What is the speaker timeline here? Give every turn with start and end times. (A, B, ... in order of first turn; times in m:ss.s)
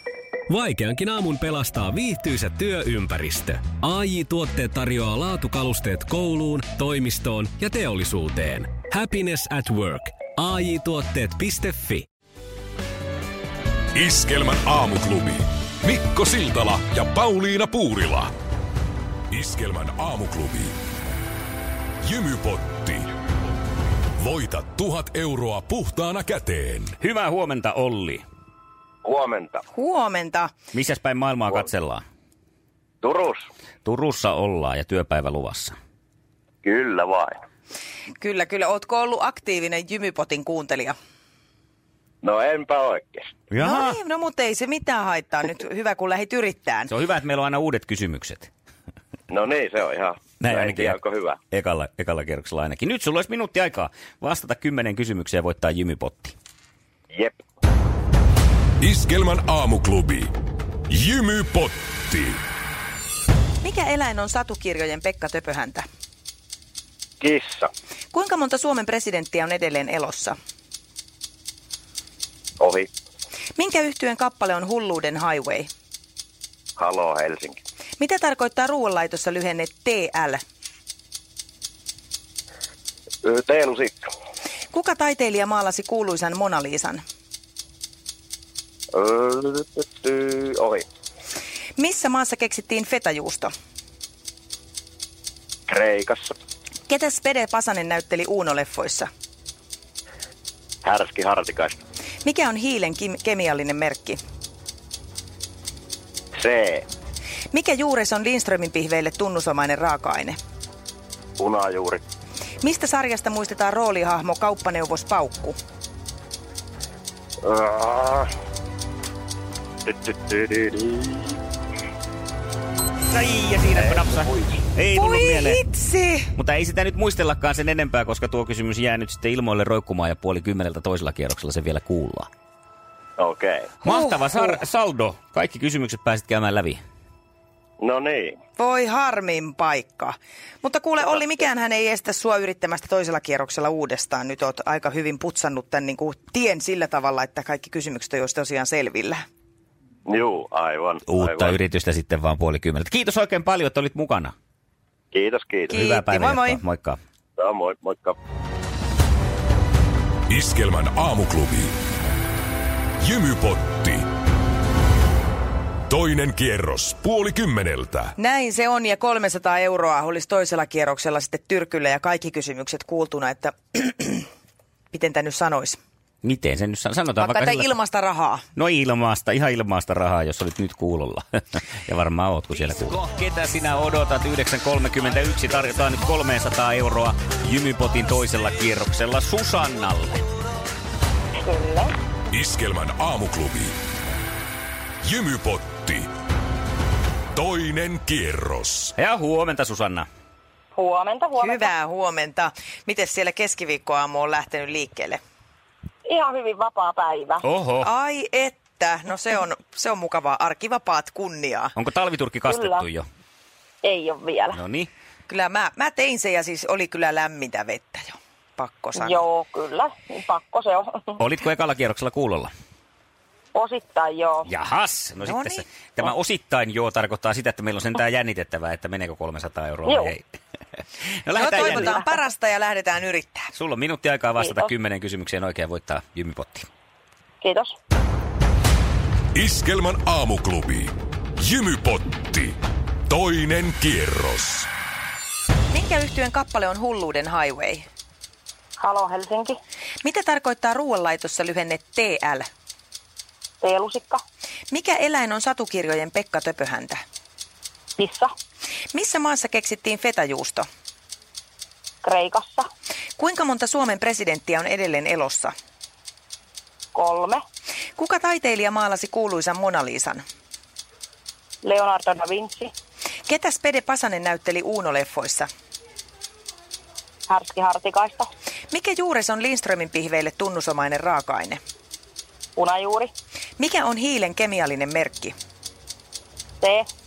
0:00.5-0:12.1 A
0:13.9-0:18.3 B
0:19.3-0:20.8 B
0:22.0-0:23.1 B
0:24.2-0:27.0 B
0:27.0-0:28.2 C
0:29.0-0:29.6 D
0:29.7-0:30.5 E
0:30.7-0:32.0 C
0:33.0-0:33.5 D
0:33.8-0:35.7 C
0:36.6-0:37.4 D
0:38.2-0:41.0 E
0:42.2-0:43.3 D
0:43.5-0:44.0 C
0:43.6-0:46.9 E
0:46.9-0:48.5 C
0:49.3-0:51.4 D
0:50.4-0:51.0 C
0:51.5-0:56.4 C
0:57.1-0:57.4 D
0:58.8-1:00.3 B
1:00.9-1:02.4 B
1:03.6-1:05.8 E
1:07.2-1:07.7 D
1:08.1-1:10.4 E
1:12.6-1:12.9 D
1:13.6-1:15.7 E
1:16.8-1:17.6 D
1:18.0-1:20.4 E
1:23.2-1:24.0 D
1:24.7-1:27.0 E
1:28.9-1:30.8 D
1:31.8-1:33.5 E
1:35.7-1:36.3 D
1:36.9-1:39.1 E
1:40.8-1:41.8 D
1:42.2-1:44.2 E
1:46.4-1:46.8 D
1:47.5-1:50.4 E
1:51.4-1:52.0 D
1:52.6-1:55.6 E
1:57.4-1:58.3 D
1:59.8-2:01.4 D
2:03.1-2:05.6 C
2:03.8-2:04.6 D
2:04.9-2:06.3 E
2:06.4-2:12.3 C
2:13.2-2:13.7 D
2:13.8-2:16.8 C
2:13.8-2:14.6 E
2:17.8-2:18.4 D
2:18.6-2:29.2 E
2:30.0-2:31.6 D
2:31.1-2:34.3 C
2:35.1-2:35.8 D
2:35.7-2:36.6 E
2:35.7-2:37.0 C
2:37.4-2:38.2 D
2:40.3-2:41.7 B
2:43.0-2:44.1 B
2:45.9-2:48.1 B
2:48.2-2:54.3 E
2:54.9-2:55.8 E
2:56.2-2:57.7 C
2:57.2-2:58.4 E
2:58.6-3:10.2 C
3:11.4-3:11.9 F
3:12.3-3:13.8 B
3:15.0-3:16.1 B
3:17.3-3:18.9 B
3:19.0-3:20.1 C
3:20.7-3:21.7 F
3:21.4-3:25.2 E
3:26.0-3:27.4 F
3:27.4-3:27.9 C
3:27.8-3:31.7 E
3:31.8-3:33.0 C
3:32.5-3:32.8 F
3:33.8-3:34.6 F
3:34.5-3:34.9 C
3:35.3-3:39.2 E
3:38.9-3:41.2 F
3:41.2-3:42.5 C
3:43.5-3:44.5 F
3:44.4-3:50.2 C
3:45.2-3:45.6 E
3:49.8-3:50.1 F
3:51.2-3:52.0 C
3:51.3-3:53.5 E
3:53.5-3:56.7 C
3:54.4-3:54.7 F
3:57.4-3:57.8 F
3:59.3-4:02.6 B
4:03.1-4:04.7 B
4:05.7-4:07.9 E
4:08.8-4:09.6 F
4:10.0-4:12.4 E
4:13.6-4:14.2 F
4:14.7-4:17.0 E
4:18.0-4:18.3 F
4:18.9-4:20.6 E
4:22.0-4:22.7 F
4:23.2-4:25.5 E
4:26.9-4:27.4 F
4:28.0-4:30.2 E
4:31.6-4:32.7 F
4:33.3-4:35.5 E
4:37.3-4:38.3 F
4:38.7-4:41.6 E
4:42.6-4:43.1 F
4:43.6-4:45.3 E
4:46.6-4:46.9 F